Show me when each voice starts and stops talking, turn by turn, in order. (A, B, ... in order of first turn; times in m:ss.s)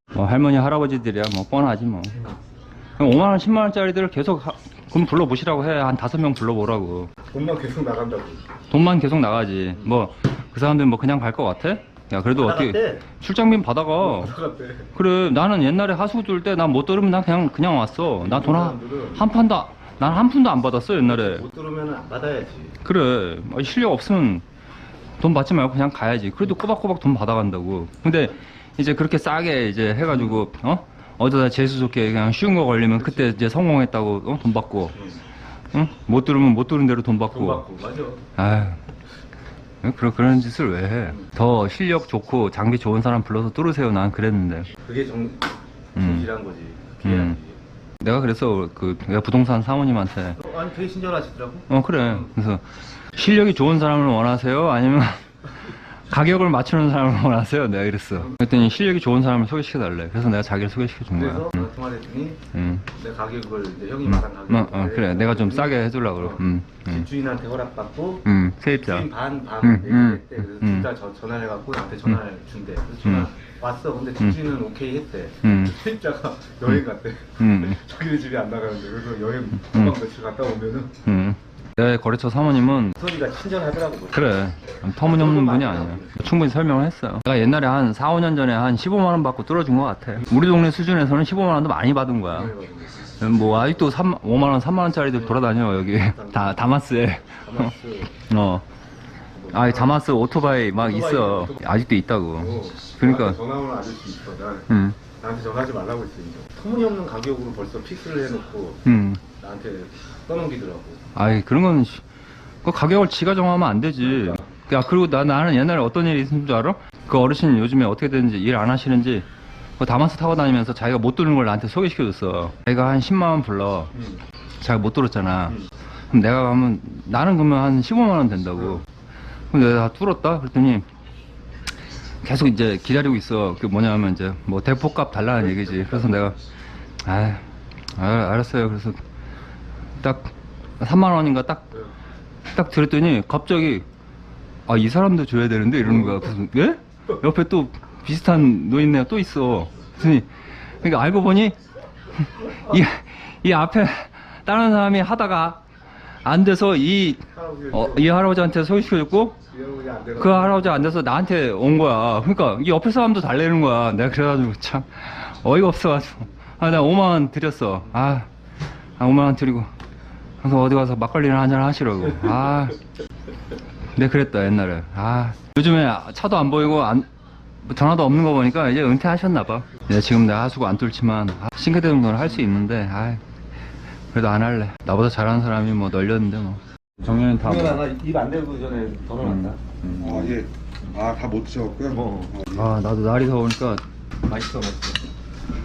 0:00.1-0:02.3 A
0:03.0-0:07.1 A
0:07.3-0:08.4 B
0:08.7-0:14.4 A
0:12.3-0:13.1 B
0:14.0-0:14.9 B
0:14.9-0:21.4 A
0:18.2-0:19.3 B
0:21.0-0:22.8 B
0:22.8-0:24.4 A
0:25.2-0:35.0 A
0:30.1-0:30.4 B
0:35.7-0:37.6 A
0:37.3-0:38.3 B
0:38.4-0:38.8 A
0:39.8-0:44.7 A
0:44.8-0:47.6 B
0:46.0-0:46.3 A
0:47.0-0:47.4 A
0:48.0-0:50.4 A
0:50.4-0:51.7 B
0:51.7-1:01.7 A
1:01.1-1:21.0 B
1:02.5-1:02.8 A
1:04.1-1:07.1 A
1:08.2-1:09.1 A
1:09.6-1:10.9 A
1:13.0-1:13.3 A
1:15.4-1:15.8 A
1:17.4-1:17.8 A
1:19.6-1:20.0 A
1:21.0-1:23.0 A
1:23.0-1:24.4 B
1:24.1-1:32.5 A
1:25.0-1:26.2 B
1:32.3-1:33.9 B
1:33.2-1:38.7 A
1:35.1-1:36.8 B
1:37.4-1:38.2 B
1:39.3-1:40.0 B
1:39.5-1:43.4 A
1:40.8-1:41.6 B
1:42.4-1:48.8 B
1:44.7-1:45.0 A
1:48.8-1:49.2 A
1:49.4-1:51.0 B
1:51.1-1:52.0 A
1:52.6-1:59.3 A
1:54.0-1:54.5 B
1:59.8-2:04.0 A
2:04.0-2:04.2 B
2:04.6-2:08.8 A
2:09.5-2:10.9 A
2:12.2-2:16.4 A
2:15.4-2:16.3 B
2:17.0-2:19.0 A
2:20.0-2:21.8 A
2:22.5-2:23.9 A
2:24.6-2:31.6 A
2:32.1-2:35.6 A
2:36.2-2:39.4 A
2:37.3-2:38.1 B
2:39.5-2:41.0 B
2:40.2-2:48.3 A
2:49.0-2:49.7 A
2:50.4-2:52.8 A
2:53.9-2:57.1 A
2:57.6-3:03.2 A
3:04.1-3:07.9 A
3:07.4-3:11.0 B
3:09.2-3:10.4 A
3:10.0-3:12.4 C
3:11.9-3:12.6 B
3:12.5-3:13.8 A
3:14.2-3:15.0 B